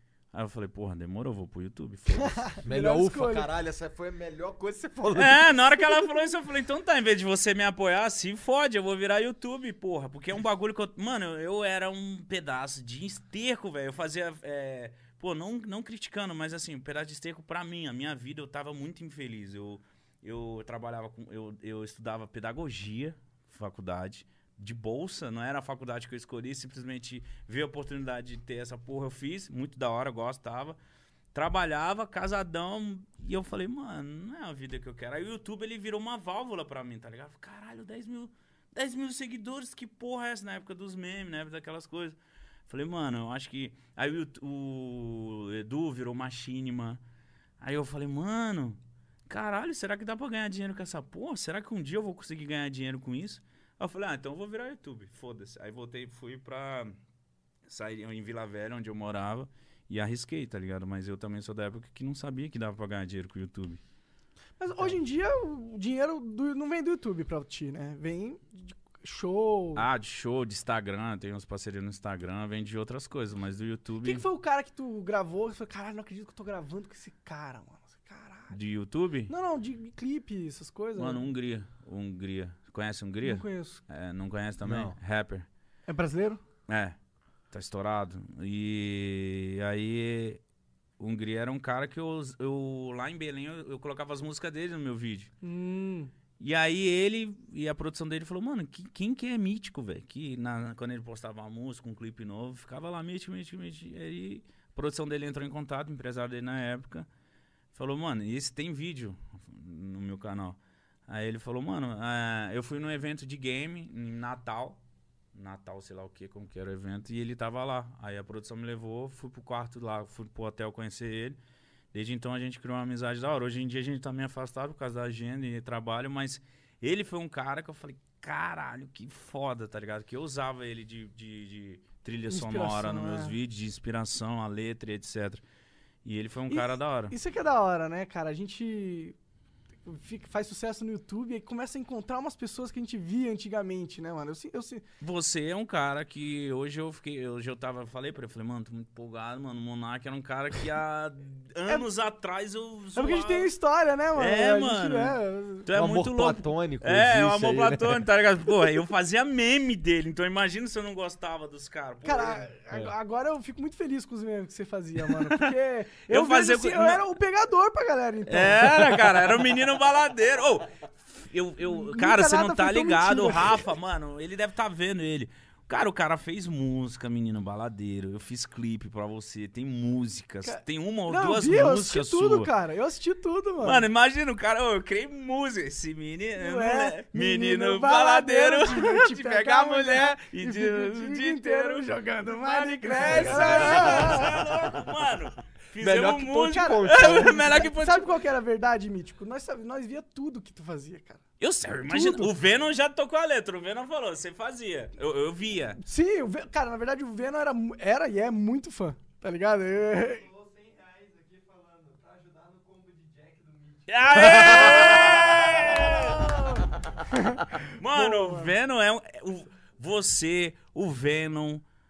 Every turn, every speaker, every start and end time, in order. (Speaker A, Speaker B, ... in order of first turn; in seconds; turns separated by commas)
Speaker A: 0.3-2.5, Speaker B: 2.2-3.5, Speaker C: 2.6-5.6, Speaker A: 5.1-30.8, Speaker A: 31.3-42.2, Speaker A: 42.7-47.0, Speaker A: 47.6-57.0, Speaker A: 57.7-63.8, Speaker B: 64.6-69.9, Speaker A: 69.8-74.2, Speaker B: 74.0-78.6, Speaker A: 78.5-79.3, Speaker B: 79.3-81.2, Speaker A: 81.0-85.5, Speaker B: 83.2-83.8, Speaker C: 84.6-85.0, Speaker B: 85.9-86.4, Speaker A: 86.7-87.0, Speaker A: 87.5-90.4, Speaker A: 91.0-95.3, Speaker B: 95.4-96.1, Speaker A: 96.4-107.1, Speaker A: 107.7-114.8, Speaker A: 115.3-121.4, Speaker A: 121.9-135.4, Speaker B: 132.3-133.4, Speaker A: 136.1-137.1, Speaker B: 136.5-139.2, Speaker B: 139.9-144.8, Speaker A: 145.0-153.5, Speaker B: 153.0-155.7, Speaker A: 154.2-162.5, Speaker C: 155.7-158.0, Speaker B: 162.1-169.1, Speaker A: 165.3-165.5, Speaker A: 166.1-167.0, Speaker A: 168.3-182.5, Speaker B: 171.7-173.7, Speaker B: 180.4-183.8, Speaker A: 183.6-198.1, Speaker B: 186.4-194.3, Speaker C: 193.4-194.3, Speaker C: 195.8-197.5, Speaker B: 196.4-201.2, Speaker A: 201.4-205.8, Speaker B: 201.9-202.3, Speaker B: 205.8-210.3, Speaker A: 213.9-216.5, Speaker B: 215.9-218.5, Speaker A: 217.7-221.6